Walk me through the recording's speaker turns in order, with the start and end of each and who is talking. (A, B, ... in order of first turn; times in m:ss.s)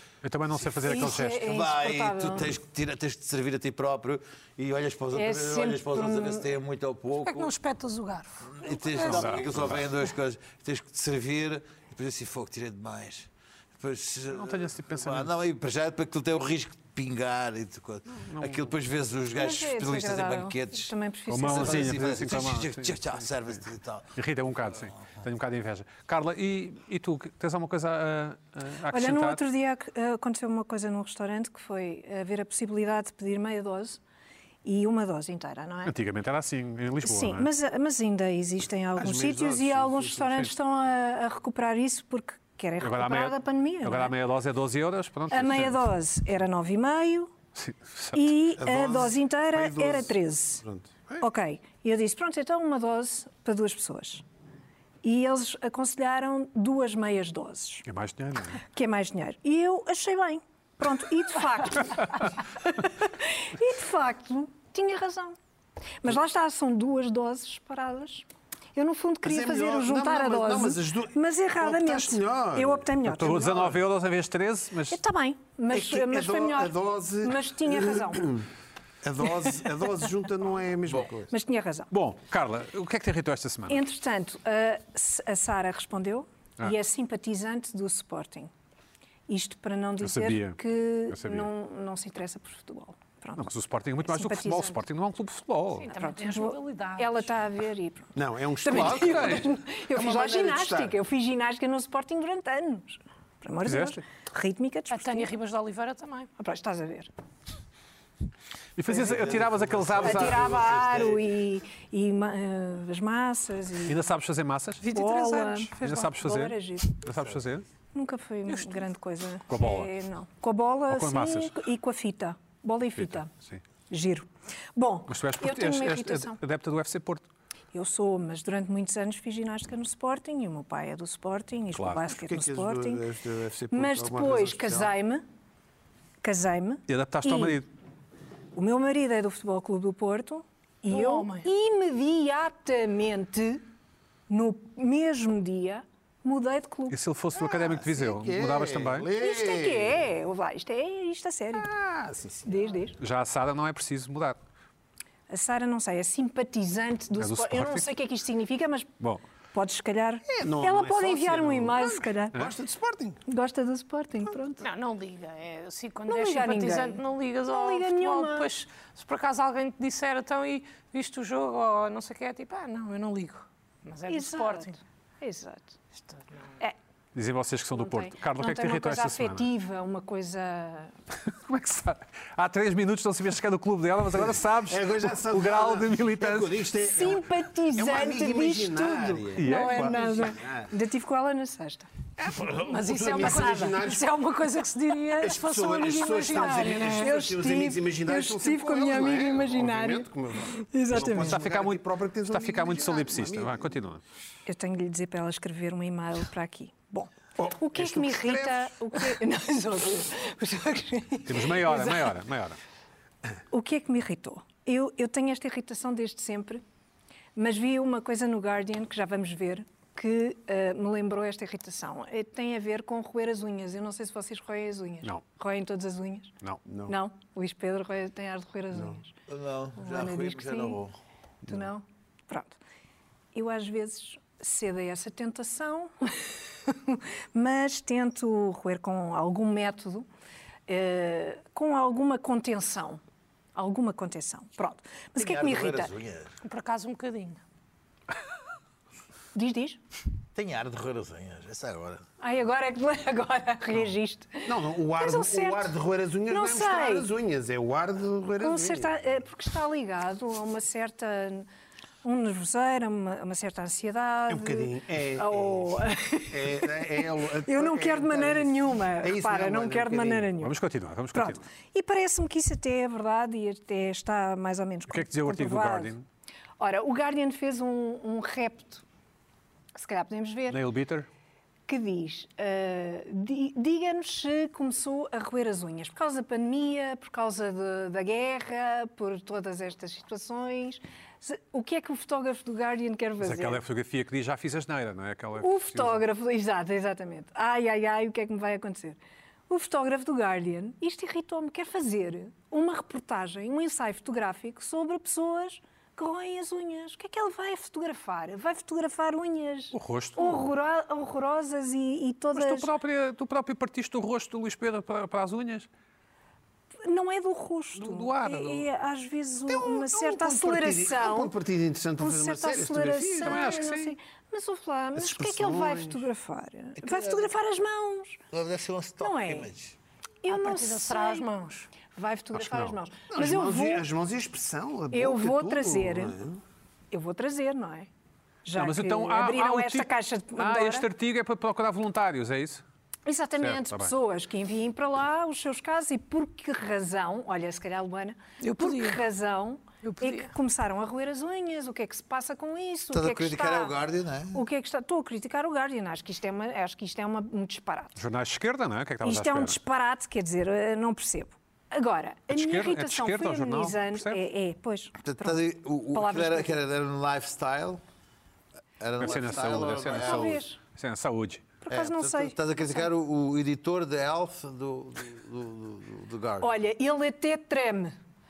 0:00.2-0:01.5 A
0:00.6-0:07.5 B
0:00.9-0:02.5 C
0:05.2-0:06.5 C
0:07.2-0:09.4 D
0:08.5-0:24.1 B
0:09.0-0:09.8 A
0:14.3-0:15.3 A
0:18.1-0:18.7 A
0:19.4-0:21.9 C
0:21.3-0:23.6 A
0:24.2-0:29.4 A
0:28.9-0:34.0 C
0:34.6-0:36.0 C
0:35.8-0:37.5 A
0:37.0-0:44.2 C
0:39.0-0:40.5 E
0:42.8-0:45.8 A
0:45.3-0:47.3 C
0:47.6-0:48.4 A
0:48.2-0:50.6 C
0:48.6-0:51.3 E
0:51.2-0:54.2 C
0:55.0-0:57.8 C
0:57.9-0:58.6 A
0:58.6-1:05.4 C
1:06.0-1:13.5 C
1:09.2-1:13.8 E
1:13.0-1:15.0 A
1:14.9-1:18.4 C
1:15.7-1:18.5 E
1:19.0-1:21.3 E
1:21.3-1:21.9 C
1:21.9-1:23.8 A
1:23.7-1:28.5 C
1:29.3-1:33.5 C
1:30.0-1:31.5 A
1:33.4-1:35.9 A
1:34.0-1:34.8 C
1:35.8-1:37.3 D
1:35.9-1:45.3 C
1:38.2-1:41.0 E
1:38.7-1:39.4 A
1:43.6-1:44.0 A
1:44.9-1:46.3 D
1:46.4-1:47.1 C
1:48.8-1:50.4 A
1:48.9-1:51.3 B
1:50.0-1:54.0 C
1:53.8-1:54.8 A
1:54.8-1:56.1 D
1:54.9-1:57.0 C
1:55.8-1:57.6 A
1:57.9-2:03.3 C
1:58.5-1:58.9 D
1:59.5-1:59.9 A
2:00.9-2:01.6 A
2:03.0-2:03.6 A
2:03.9-2:06.4 C
2:05.1-2:07.3 A
2:07.7-2:13.0 C
2:11.7-2:12.1 A
2:12.2-2:14.9 E
2:13.7-2:15.2 C
2:16.2-2:17.6 C
2:16.9-2:17.7 A
2:18.5-2:23.6 C
2:20.9-2:21.5 D
2:24.3-2:27.0 C
2:26.9-2:29.1 A
2:27.3-2:30.1 E
2:29.1-2:31.7 C
2:31.5-2:32.8 E
2:32.5-2:33.0 C
2:33.0-2:34.4 A
2:35.3-2:39.0 C
2:37.2-2:37.9 A
2:39.5-2:42.4 C
2:40.3-2:43.2 E
2:43.3-2:44.6 C
2:44.6-2:54.8 D
2:46.1-2:48.5 C
2:54.1-2:55.8 C
2:57.2-2:59.5 A
2:57.8-3:00.9 C
3:01.2-3:06.7 A
3:04.2-3:10.7 E
3:06.9-3:11.9 C
3:09.4-3:10.0 A
3:12.2-3:14.1 E
3:12.6-3:17.2 D
3:13.2-3:13.7 C
3:15.2-3:23.8 E
3:16.1-3:21.4 C
3:21.0-3:24.0 A
3:24.5-3:32.2 C
3:27.4-3:29.1 E
3:31.2-3:32.6 A
3:33.5-3:36.6 C
3:37.4-3:46.3 C
3:46.7-3:47.0 E
3:46.9-3:49.1 C
3:48.7-3:49.0 E
3:49.3-3:51.0 B
3:49.8-3:50.8 C
3:51.4-3:52.6 C
3:53.3-4:00.1 C
4:00.7-4:03.0 C
4:03.6-4:05.9 C
4:05.2-4:06.3 B
4:06.4-4:07.4 D
4:09.3-4:09.8 C
4:10.4-4:12.0 B
4:12.2-4:15.7 C
4:14.5-4:19.2 E
4:16.3-4:17.1 C
4:18.4-4:21.5 C
4:22.0-4:30.6 C
4:24.3-4:30.3 E
4:30.4-4:31.4 A
4:31.1-4:36.0 C
4:34.9-4:36.0 A
4:36.6-4:38.8 C
4:39.7-4:40.6 C
4:40.5-4:41.1 A
4:41.7-4:53.6 C
4:53.2-4:56.0 A
4:55.4-5:12.7 C
5:09.7-5:10.5 A
5:12.4-5:15.7 A
5:16.8-5:21.3 C
5:17.8-5:18.7 A
5:19.5-5:23.6 E
5:22.0-5:28.2 C
5:23.2-5:24.0 A
5:25.0-5:26.1 E
5:26.8-5:27.3 B
5:28.3-5:29.8 B
5:29.0-5:29.5 C
5:30.2-5:31.3 C
5:30.3-5:31.7 D
5:31.9-5:33.8 C
5:32.3-5:32.8 A
5:33.1-5:36.4 E
5:34.9-5:36.2 C
5:36.9-5:37.9 C
5:38.4-5:40.9 C
5:38.6-5:42.6 A
5:43.1-5:53.8 C
5:43.4-5:43.9 A
5:48.4-5:49.0 D
5:49.8-5:50.3 D
5:52.9-5:54.4 B
5:54.3-5:58.0 C
5:58.0-5:59.6 A
5:59.0-6:05.4 C
6:02.3-6:04.2 A
6:05.0-6:07.8 B
6:05.9-6:06.5 C
6:08.8-6:10.4 B
6:09.0-6:11.5 A
6:09.9-6:10.6 C
6:11.6-6:12.9 C
6:11.7-6:16.5 B
6:16.4-6:18.0 C